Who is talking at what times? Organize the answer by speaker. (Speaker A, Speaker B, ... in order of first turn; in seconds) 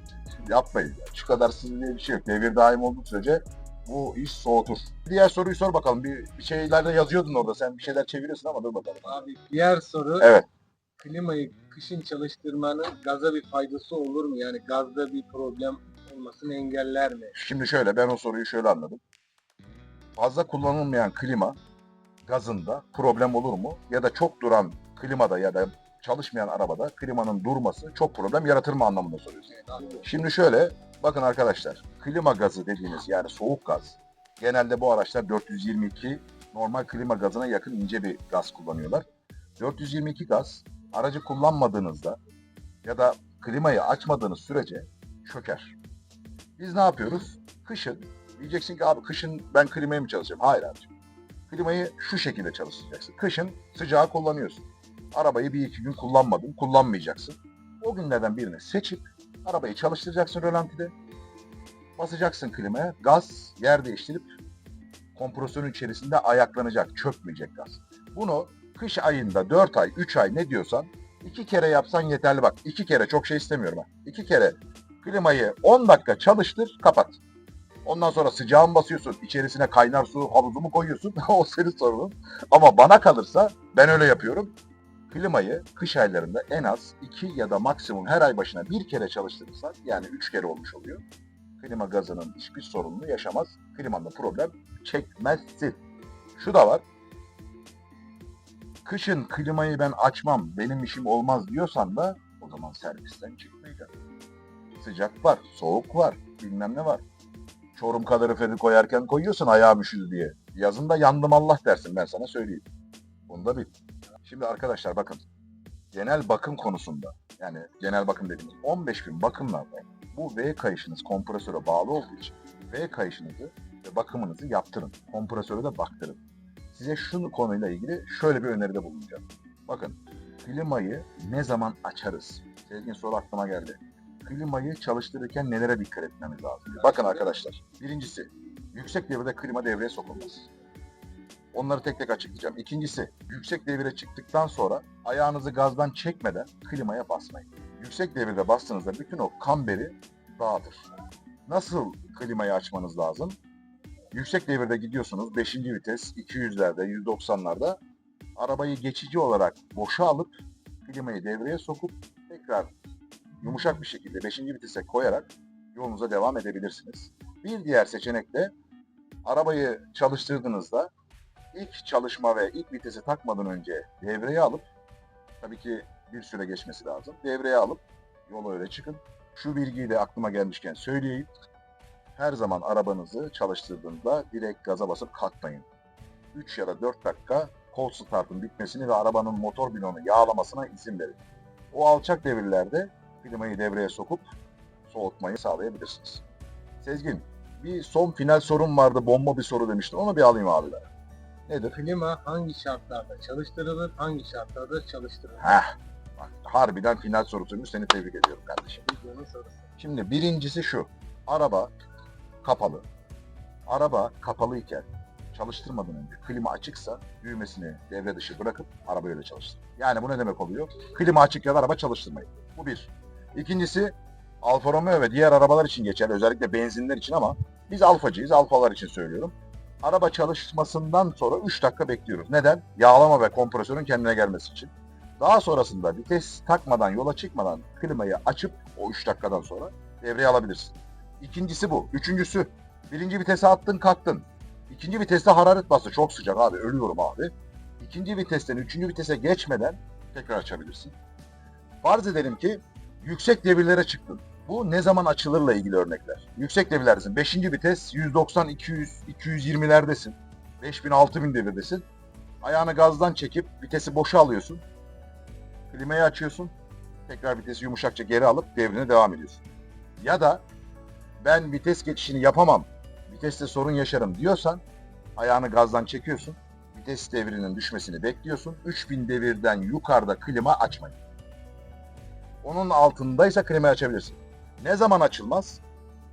Speaker A: 0.4-9.3, 10.2-10.4, 17.3-19.0, 20.2-21.6, 22.2-39.1, 39.6-42.2, 42.8-45.8, 46.6-50.9, 51.5-60.9, 62.0-64.3, 65.1-77.2, 77.8-84.5, 85.1-91.0, 91.6-95.8, 96.3-96.8, 98.8-103.9, 104.8-107.0, 107.7-112.7, 113.3-113.7, 114.2-115.2, 115.9-126.2, 126.7-140.5, 141.5-150.8, 151.5-153.4, 154.1-157.8, 158.4-160.3, 160.8-162.7, 163.4-168.5, 169.2-170.9, 171.5-174.7, 175.4-181.3, 182.2-185.7, 186.3-191.2, 191.7-194.2, 194.9-196.2, 196.8-200.9, 201.5-201.8, 205.4-208.9, 209.8-211.7, 212.4-212.8, 213.7-250.9, 251.8-261.8, 262.4-264.6, 265.7-266.5, 267.1-269.4, 270.0-270.4, 271.2-274.6, 275.2-281.0, 282.4-285.6
Speaker B: 9.1-10.3, 11.0-17.3, 29.5-30.1, 201.8-205.6, 208.8-209.7